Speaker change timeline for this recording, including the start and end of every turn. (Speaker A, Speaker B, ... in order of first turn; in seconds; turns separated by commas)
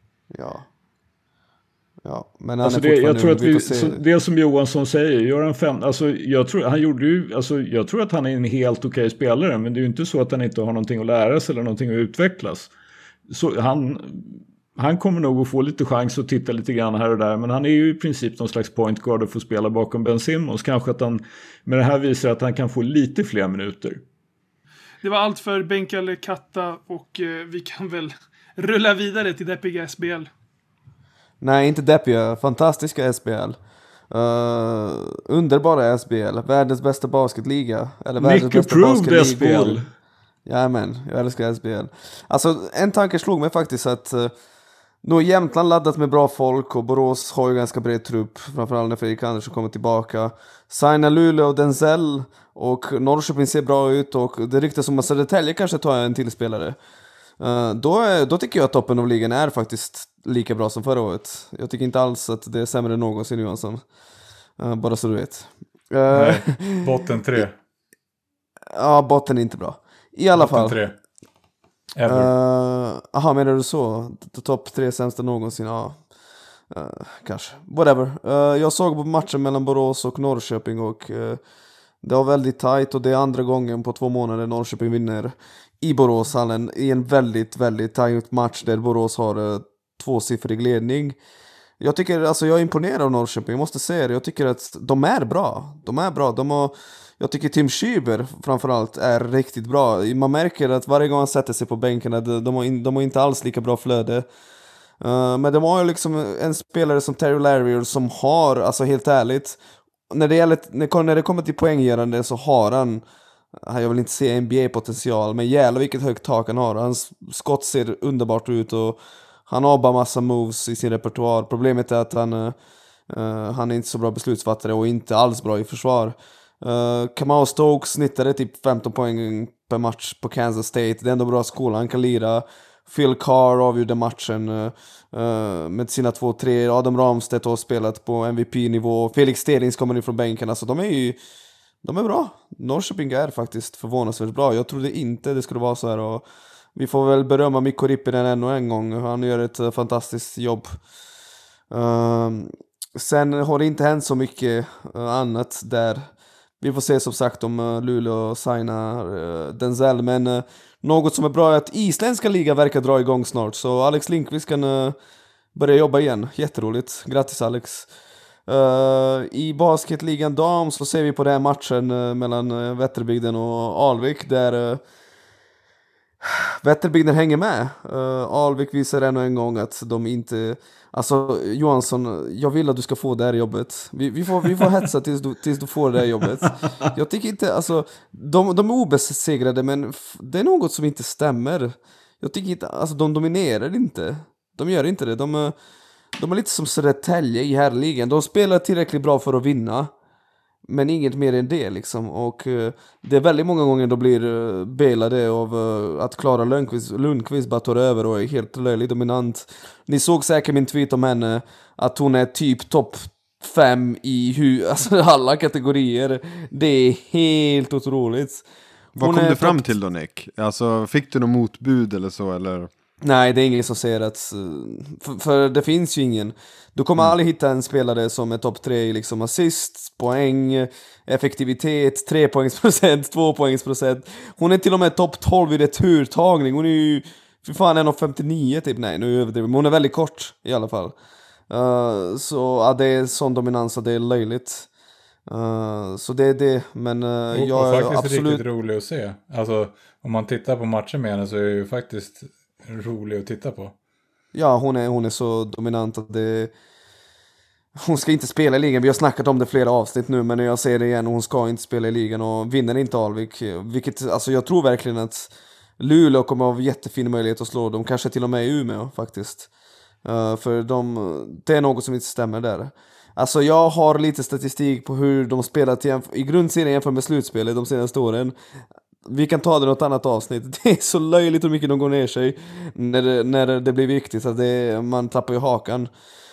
Speaker A: 0.3-0.6, Speaker A: 2.0-4.0, Speaker B: 2.6-12.7, Speaker B: 13.3-24.0, Speaker C: 25.0-30.3, Speaker A: 31.4-33.6, Speaker A: 34.1-39.8, Speaker B: 38.2-39.8, Speaker A: 40.5-44.3, Speaker A: 45.0-56.8, Speaker A: 57.4-63.8, Speaker A: 64.6-67.0, Speaker D: 66.1-67.5, Speaker A: 68.7-70.8, Speaker D: 70.3-70.9, Speaker D: 72.0-72.3, Speaker A: 72.1-76.0, Speaker A: 76.7-81.4, Speaker A: 82.0-91.2, Speaker A: 91.8-104.3, Speaker A: 105.0-109.6, Speaker A: 110.1-113.0, Speaker A: 113.6-122.5, Speaker A: 123.1-141.2, Speaker A: 141.8-146.2, Speaker A: 146.8-150.8, Speaker A: 151.7-156.1, Speaker A: 156.6-164.9, Speaker A: 165.5-167.9, Speaker A: 168.5-174.8, Speaker A: 176.2-195.5, Speaker A: 196.2-199.9, Speaker A: 200.7-218.4, Speaker A: 218.9-219.7, Speaker E: 218.9-222.7, Speaker A: 223.0-240.9, Speaker A: 241.5-244.7, Speaker A: 245.3-248.4, Speaker D: 247.3-253.7, Speaker A: 254.3-256.5, Speaker A: 257.8-269.5, Speaker A: 270.0-278.3, Speaker A: 279.1-285.9